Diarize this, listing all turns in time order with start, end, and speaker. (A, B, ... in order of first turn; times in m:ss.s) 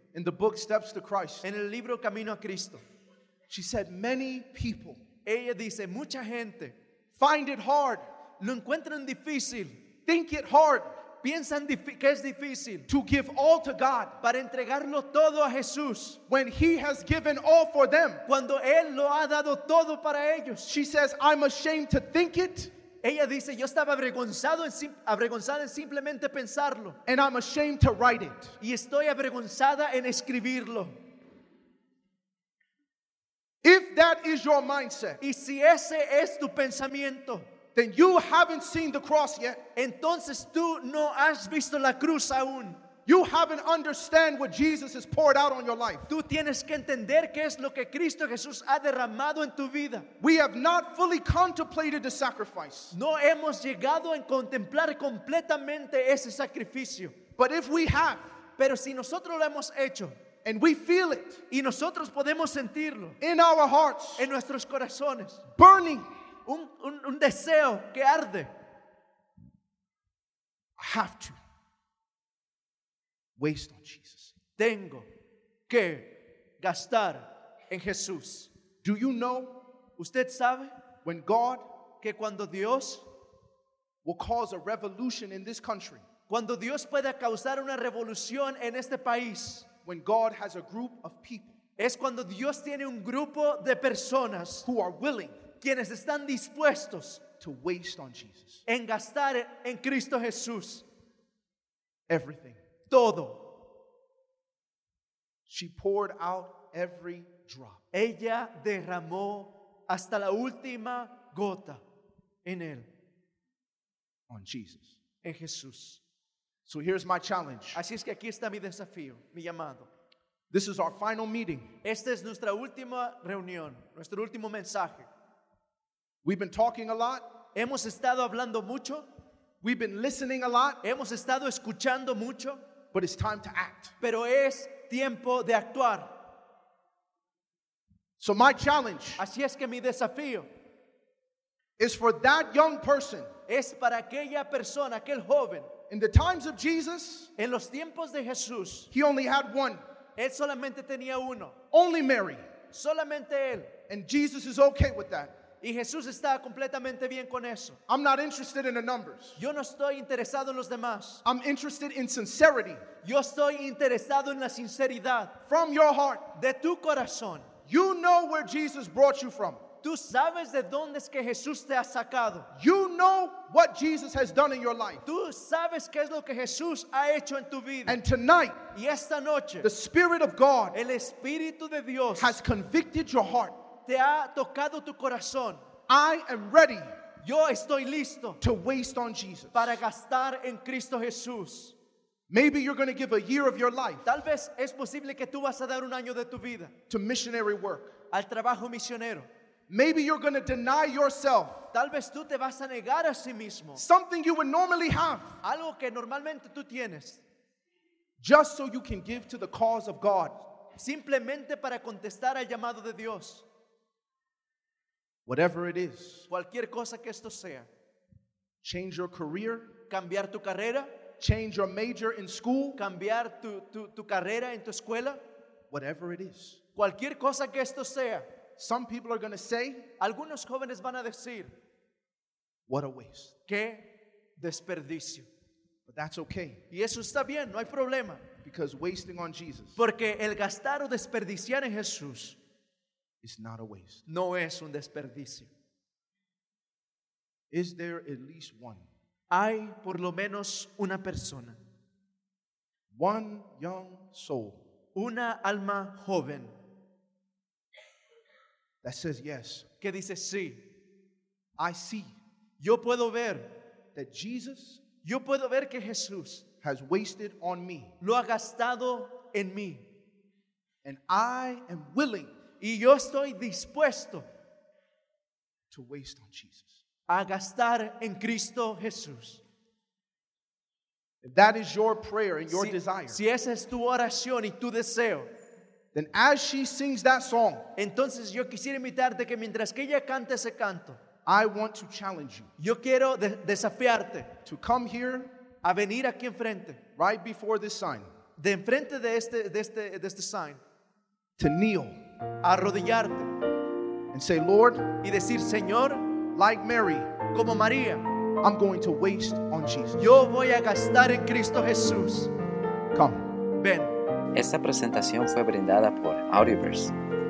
0:00.1-0:01.4 A
0:01.4-0:02.8 B
0:03.5-0:05.0 A
0:05.2-0:06.8 B
0:07.2-0:08.0 A
0:08.4-0:09.7 B
0:10.0-0:10.9 A
0:11.2-0:12.9 B
0:12.9-0:14.2 A
0:14.2-0:16.2 B
0:16.3-0:18.2 A
0:18.2-0:20.7 B
0:20.7-0:22.7 A
0:23.0-0:27.0 B
0:27.0-0:28.6 A
0:28.6-0:31.0 B
0:33.6-0:35.2 A
0:35.2-0:37.4 B
0:37.7-0:39.6 A
0:39.8-0:42.8 B
0:43.0-0:46.1 A
0:46.1-0:50.1 B
0:50.2-0:52.9 A
0:52.9-0:57.2 B
0:57.4-0:58.3 A
0:58.6-1:00.2 B
1:00.4-1:01.4 A
1:01.5-1:03.2 B
1:03.2-1:04.3 A
1:04.2-1:05.4 B
1:05.6-1:06.1 A
1:06.4-1:08.5 B
1:10.8-1:11.4 A
1:13.4-1:14.3 A
1:14.6-1:15.1 B
1:15.7-1:18.5 B
1:18.8-1:19.6 A
1:20.0-1:20.7 B
1:21.0-1:21.6 A
1:22.0-1:23.0 B
1:24.0-1:26.0 A
1:26.3-1:29.7 B
1:29.8-1:31.6 A
1:31.8-1:34.6 B
1:34.6-1:35.4 A
1:35.6-1:37.2 B
1:37.4-1:38.6 A
1:38.6-1:40.8 B
1:42.1-1:42.6 A
1:42.9-1:43.5 B
1:45.5-1:47.8 A
1:47.9-1:51.8 B
1:52.4-1:52.9 B
1:54.3-1:55.0 A
1:55.2-1:56.0 B
1:56.6-1:57.8 A
1:57.7-1:59.9 B
2:00.5-2:01.7 A
2:01.8-2:05.1 B
2:06.2-2:07.2 A
2:07.5-2:09.0 B
2:09.6-2:10.8 A
2:10.8-2:12.6 B
2:12.9-2:13.9 A
2:14.0-2:16.1 B
2:18.2-2:19.2 A
2:19.2-2:20.5 B
2:21.8-2:23.3 A
2:23.5-2:25.7 B
2:25.9-2:27.3 A
2:27.4-2:28.9 B
2:28.9-2:29.8 A
2:30.2-2:31.6 B
2:31.7-2:32.4 A
2:32.7-2:33.7 B
2:33.9-2:35.4 A
2:35.6-2:37.8 B
2:37.9-2:39.4 A
2:39.4-2:41.2 B
2:41.2-2:42.8 A
2:43.0-2:45.4 B
2:45.5-2:46.3 A
2:46.3-2:47.5 B
2:47.7-2:49.6 A
2:49.8-2:52.5 B
2:52.5-2:55.0 A
2:55.0-2:58.0 B
2:57.9-2:58.6 A
2:58.7-2:59.7 B
2:59.6-3:00.8 A
3:00.7-3:02.4 B
3:02.2-3:03.5 A
3:03.8-3:05.6 B
3:05.9-3:06.9 A
3:07.2-3:08.4 B
3:08.4-3:09.8 A
3:09.5-3:11.7 B
3:12.3-3:14.1 A
3:14.0-3:16.7 B
3:16.9-3:17.9 A
3:18.1-3:19.3 B
3:19.7-3:21.7 A
3:21.7-3:23.8 B
3:23.8-3:25.4 A
3:25.4-3:27.2 B
3:28.2-3:30.4 A
3:30.8-3:33.4 B
3:35.2-3:36.3 A
3:36.3-3:37.7 B
3:38.6-3:39.7 A
3:39.9-3:40.9 B
3:41.2-3:42.8 A
3:42.8-3:45.2 B
3:45.7-3:46.6 A
3:46.8-3:48.3 B
3:48.6-3:49.9 A
3:50.0-3:51.5 B
3:52.7-3:53.3 A
3:53.5-3:55.3 B
3:55.8-3:56.6 A
3:56.7-3:58.3 B
3:58.4-3:59.8 A
3:59.8-4:02.4 B
4:03.2-4:04.0 A
4:04.1-4:05.5 B
4:07.5-4:08.8 A
4:09.3-4:11.6 B
4:12.9-4:14.6 A
4:14.9-4:16.5 B
4:18.8-4:19.6 A
4:19.8-4:20.6 B
4:21.6-4:22.1 A
4:22.6-4:23.5 B
4:23.9-4:24.8 A
4:25.0-4:26.4 B
4:26.6-4:27.9 A
4:28.0-4:29.8 B
4:30.8-4:32.3 A
4:32.6-4:34.2 B
4:35.7-4:36.8 A
4:37.1-4:39.4 B
4:41.2-4:43.2 A
4:42.5-4:45.3 B
4:45.9-4:47.6 A
4:47.8-4:51.0 B
4:51.2-4:52.5 A
4:52.6-4:54.3 B
4:54.4-4:55.3 A
4:55.6-4:56.8 B
4:57.0-4:58.1 A
4:58.4-5:00.6 B
5:01.4-5:02.0 A
5:02.4-5:03.3 B
5:04.1-5:04.9 A
5:05.0-5:06.0 B
5:06.3-5:07.1 A
5:07.3-5:08.0 B
5:08.4-5:10.2 A
5:10.0-5:12.3 B
5:12.9-5:13.2 A
5:13.6-5:14.0 B
5:14.3-5:16.9 C